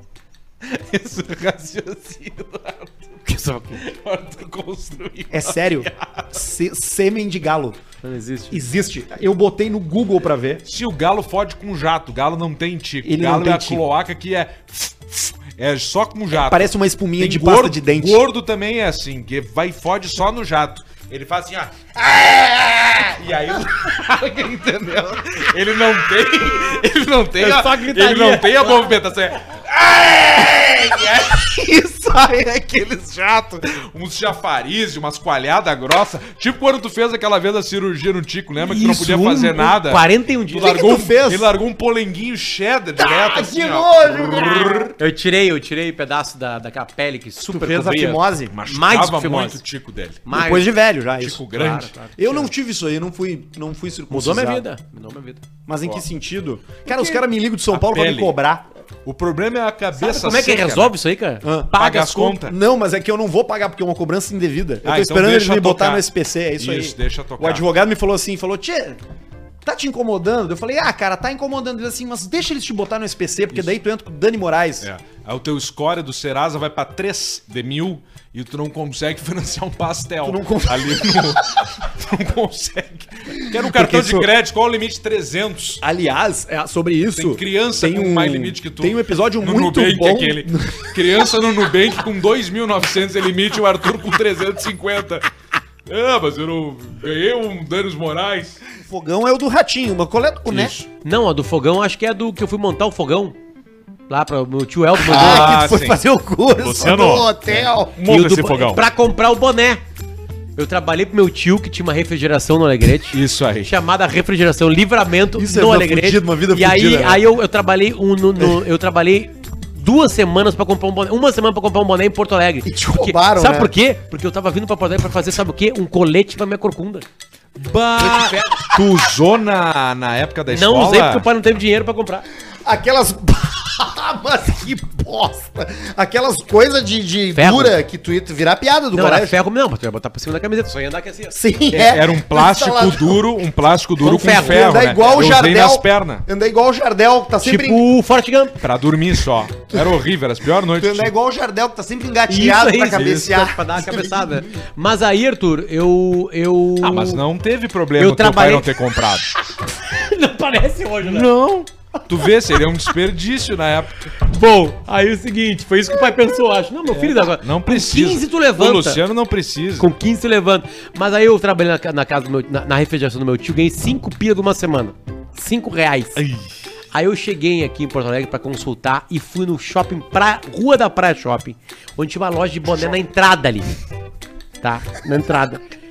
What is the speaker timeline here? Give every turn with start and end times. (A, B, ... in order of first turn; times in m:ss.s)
0:00.6-0:03.0 A
0:03.2-0:03.8 B
0:03.8-0:06.3 A
0:05.3-0:07.8 C
0:08.0-0:08.6 B
0:08.5-0:10.6 C
0:10.6-0:45.0 A
0:13.0-0:13.8 C
0:16.3-0:18.2 C
0:27.4-0:29.0 B
0:38.6-0:40.8 B
0:40.6-0:41.5 C
0:43.0-0:44.9 C
0:45.0-0:48.1 B
0:47.4-0:48.6 C
0:47.7-0:50.2 A
0:48.7-0:49.6 B
0:50.2-0:50.7 B
0:50.3-0:54.6 C
0:51.2-0:51.9 A
0:51.6-0:52.5 B
0:54.1-0:55.4 B
0:55.7-0:58.7 C
0:57.7-0:58.4 A
0:59.0-1:01.0 A
1:00.0-1:02.2 B
1:01.4-1:09.0 C
1:01.7-1:02.6 A
1:04.8-1:06.1 A
1:06.6-1:07.7 A
1:09.6-1:14.9 C
1:14.8-1:25.8 A
1:20.2-1:21.3 C
1:23.5-1:24.3 C
1:25.8-1:30.8 C
1:27.2-1:35.3 A
1:35.9-1:38.6 A
1:38.8-1:40.7 C
1:40.5-1:40.9 A
1:41.0-1:43.4 B
1:44.1-1:45.7 B
1:45.0-1:46.0 A
1:45.1-1:48.0 C
1:46.6-1:47.3 A
1:47.5-1:49.8 B
1:48.0-1:48.8 A
1:50.6-2:07.0 B
1:53.1-1:53.7 A
1:55.4-1:57.2 C
2:02.6-2:03.7 C
2:07.6-2:11.2 A
2:08.0-2:08.7 B
2:10.5-2:12.2 B
2:12.6-2:19.4 C
2:17.4-2:17.8 B
2:18.9-2:21.9 B
2:21.3-2:23.2 C
2:21.7-2:26.2 A
2:24.0-2:25.2 B
2:24.1-2:27.8 C
2:27.4-2:28.6 B
2:28.6-2:31.1 A
2:30.8-2:34.4 C
2:32.3-2:37.2 B
2:36.8-2:39.3 A
2:38.0-2:38.7 B
2:39.8-2:41.3 B
2:41.0-2:44.1 A
2:44.2-2:49.0 B
2:46.9-2:49.9 A
2:49.8-2:56.2 B
2:56.2-2:56.4 A
2:56.9-3:03.7 B
3:04.6-3:05.6 B